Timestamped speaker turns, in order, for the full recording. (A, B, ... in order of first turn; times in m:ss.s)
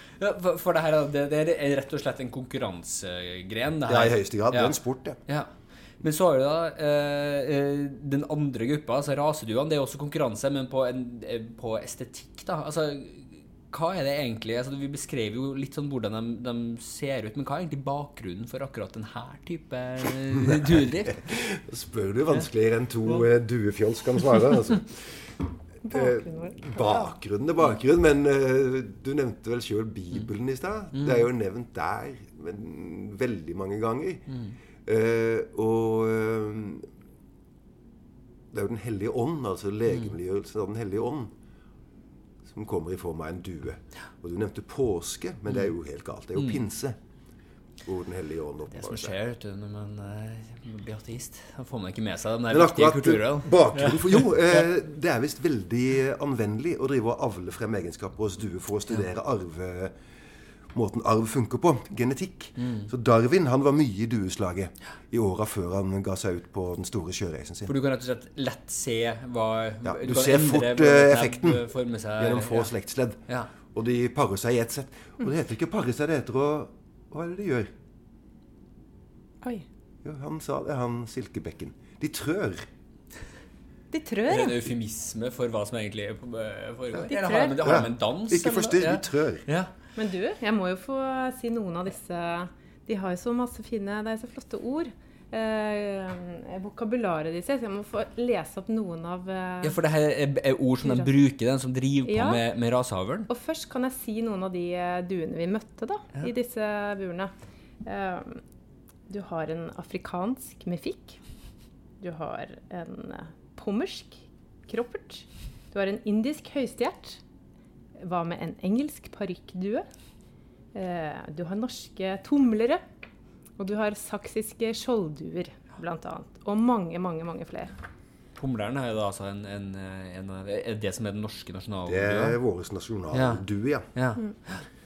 0:00.2-0:21.2 A
0:03.9-0:05.2 B
0:21.2-0:25.3 B
0:25.8-0:27.1 C
0:25.8-0:36.9 B
0:30.9-0:31.2 A
0:38.5-0:41.3 B
0:42.4-0:47.0 B
0:46.4-0:46.6 A
0:47.8-0:49.2 B
0:48.7-0:54.6 A
0:52.5-1:00.0 B
1:00.7-1:07.7 B
1:02.6-1:02.9 A
1:07.7-1:12.7 A
1:09.8-1:17.7 B
1:20.0-1:22.7 B
1:23.9-1:24.6 C
1:24.3-1:29.7 A
1:27.0-1:28.8 C
1:27.6-1:29.4 B
1:30.0-1:39.8 C
1:39.6-1:43.3 A
1:40.8-1:41.1 C
1:42.0-1:42.4 C
1:43.3-1:47.3 C
1:47.8-1:48.4 C
1:49.1-1:51.2 C
1:52.0-1:57.2 C
1:58.0-1:59.9 C
2:00.7-2:02.8 C
2:03.6-2:07.7 C
2:08.4-2:12.4 A
2:11.8-2:13.9 B
2:13.1-2:13.4 A
2:13.9-2:14.7 A